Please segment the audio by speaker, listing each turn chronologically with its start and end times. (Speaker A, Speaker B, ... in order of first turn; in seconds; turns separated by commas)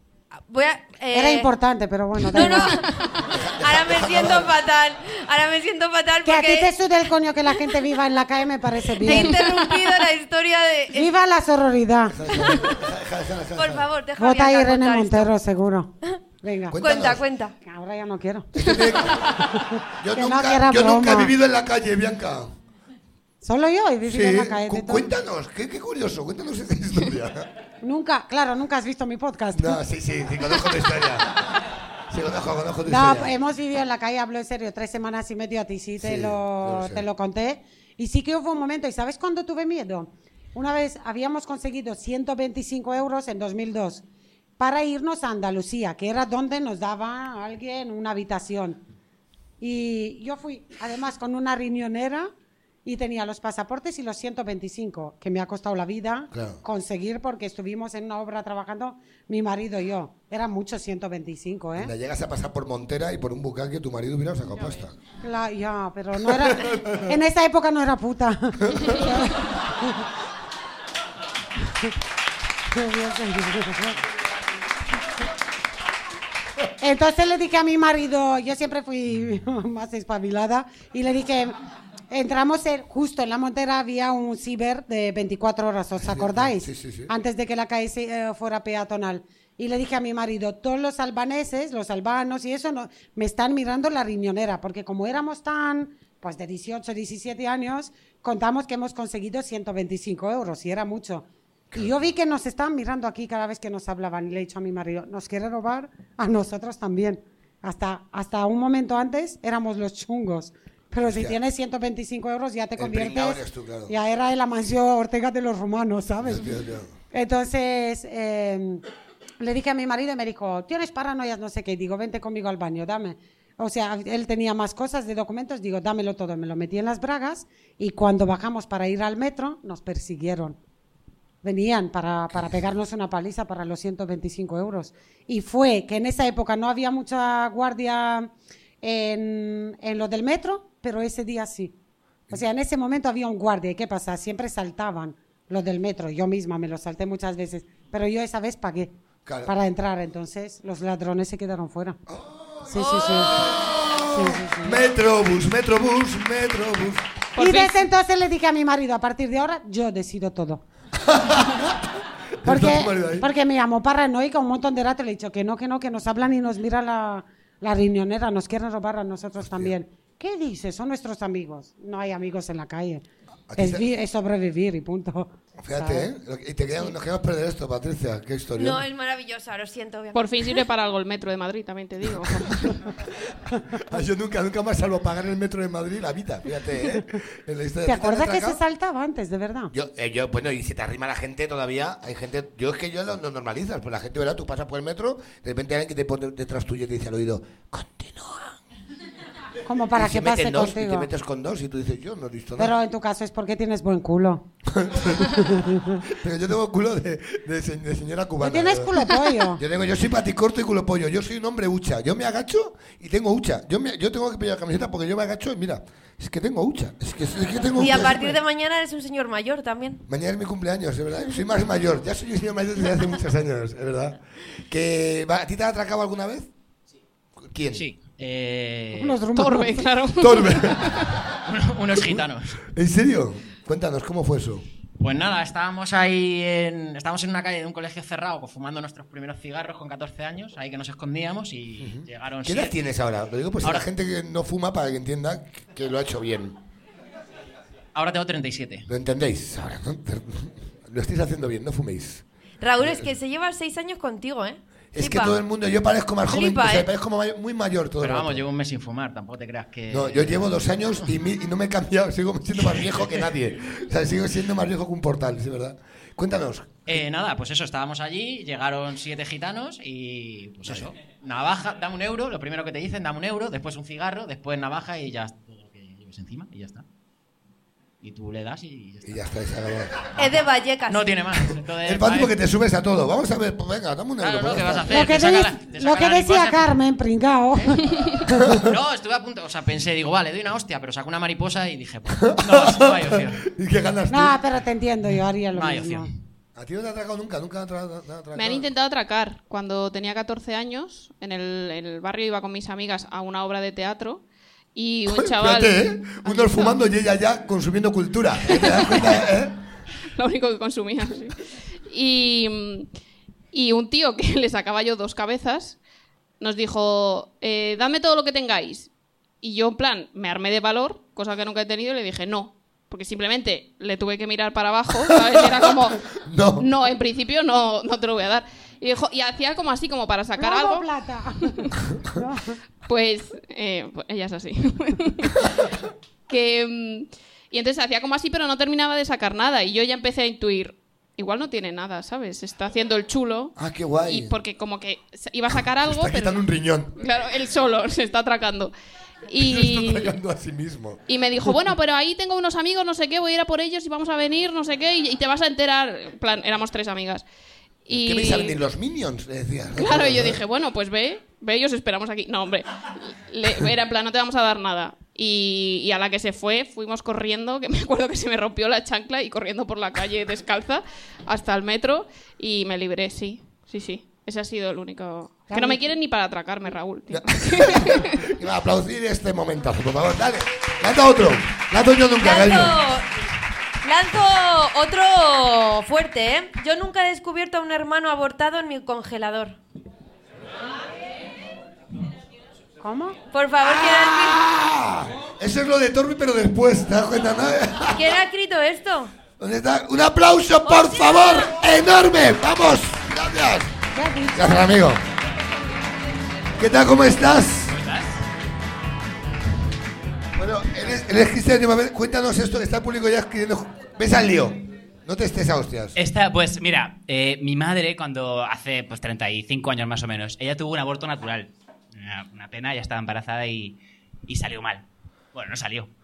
Speaker A: 0.5-1.5, Speaker B: 1.1-2.8, Speaker A: 2.3-6.7, Speaker C: 2.3-3.2, Speaker D: 3.2-4.6, Speaker B: 6.2-9.4, Speaker A: 9.0-11.1, Speaker C: 9.1-9.5, Speaker B: 10.9-12.2, Speaker D: 12.1-13.9, Speaker A: 12.3-12.7, Speaker A: 13.6-15.3, Speaker B: 14.2-16.8, Speaker D: 16.7-17.2, Speaker A: 16.8-17.5, Speaker B: 17.6-18.5, Speaker D: 18.5-19.4, Speaker B: 19.4-21.3, Speaker D: 20.0-22.5, Speaker B: 23.4-25.1, Speaker D: 24.1-27.5, Speaker B: 27.8-29.8, Speaker D: 29.5-31.4, Speaker D: 32.1-33.3, Speaker B: 32.9-44.0, Speaker D: 36.0-37.0, Speaker B: 44.6-48.8, Speaker B: 49.6-52.3, Speaker B: 52.8-61.9, Speaker D: 56.3-56.6, Speaker D: 61.8-64.9, Speaker B: 65.2-70.0, Speaker D: 66.3-67.1, Speaker D: 68.6-69.0, Speaker B: 72.7-74.0, Speaker B: 76.8-81.5, Speaker B: 82.1-116.5, Speaker D: 86.0-87.1, Speaker D: 101.7-102.1, Speaker D: 111.0-111.4, Speaker D: 112.8-113.9, Speaker D: 116.2-116.9, Speaker B: 117.1-118.8, Speaker B: 119.4-130.6, Speaker B: 131.4-141.8, Speaker B: 142.3-148.9, Speaker D: 149.2-149.5, Speaker B: 149.4-152.0, Speaker D: 152.1-157.1, Speaker B: 152.7-153.4, Speaker B: 154.1-154.8, Speaker C: 157.3-157.8, Speaker B: 157.4-160.6, Speaker D: 160.9-161.8, Speaker D: 162.4-163.3, Speaker B: 162.4-173.0, Speaker D: 169.4-169.7, Speaker D: 173.5-173.8, Speaker B: 173.6-176.1, Speaker D: 175.6-178.8, Speaker A: 178.6-180.6, Speaker C: 180.1-182.8, Speaker D: 182.2-182.5, Speaker D: 183.7-188.6, Speaker B: 187.8-189.7, Speaker D: 189.7-198.6, Speaker B: 199.7-201.1, Speaker D: 199.9-202.7, Speaker B: 202.6-204.4, Speaker D: 204.7-208.9, Speaker B: 205.4-206.0, Speaker B: 208.4-209.6, Speaker D: 209.6-218.4, Speaker A: 217.7-220.0, Speaker D: 220.1-226.5, Speaker D: 227.4-227.8, Speaker E: 227.7-229.2, Speaker B: 228.9-229.9, Speaker C: 229.3-231.2, Speaker D: 230.2-231.1, Speaker E: 231.4-232.6, Speaker D: 232.7-234.6, Speaker E: 235.0-242.8, Speaker D: 241.8-246.6, Speaker E: 243.6-243.9, Speaker E: 247.9-248.9, Speaker D: 248.9-252.2, Speaker A: 252.6-255.3, Speaker D: 252.8-253.1, Speaker D: 254.9-258.4, Speaker A: 256.3-256.9, Speaker E: 258.0-260.5, Speaker D: 259.9-266.9, Speaker E: 266.9-276.8, Speaker D: 270.6-270.9, Speaker E: 278.0-279.2, Speaker D: 279.0-280.1, Speaker A: 280.2-281.1, Speaker E: 280.9-282.3, Speaker D: 281.8-285.0, Speaker E: 284.2-286.7, Speaker B: 284.9-287.8, Speaker D: 288.4-288.7, Speaker E: 288.5-293.4, Speaker D: 292.3-294.4, Speaker B: 294.1-296.1, Speaker E: 295.5-296.1, Speaker D: 296.6-298.7, Speaker C: 298.3-304.2, Speaker C: 304.7-306.8, Speaker D: 305.1-309.6, Speaker C: 308.5-309.2, Speaker C: 310.2-312.9, Speaker C: 313.5-315.8, Speaker C: 316.4-318.9, Speaker C: 319.4-330.9, Speaker D: 325.2-326.7, Speaker B: 330.4-332.6, Speaker C: 331.4-331.8, Speaker C: 332.9-335.6, Speaker C: 336.3-343.5, Speaker D: 343.6-344.3, Speaker C: 344.1-346.4, Speaker D: 345.8-346.9, Speaker C: 347.0-348.7, Speaker C: 349.3-350.1, Speaker D: 349.4-351.0, Speaker C: 351.1-357.2, Speaker C: 357.8-358.6, Speaker D: 357.9-360.4, Speaker C: 359.8-378.3, Speaker B: 375.5-375.9, Speaker D: 377.1-382.8, Speaker A: 382.2-383.1, Speaker A: 383.8-389.6, Speaker B: 392.8-393.1, Speaker A: 393.3-394.4, Speaker D: 393.6-398.2, Speaker A: 397.9-399.1, Speaker D: 399.4-403.7, Speaker A: 400.6-401.5, Speaker B: 403.9-404.6, Speaker D: 404.3-405.0, Speaker D: 406.6-407.8, Speaker F: 407.7-408.2, Speaker D: 410.3-416.0, Speaker F: 415.9-425.9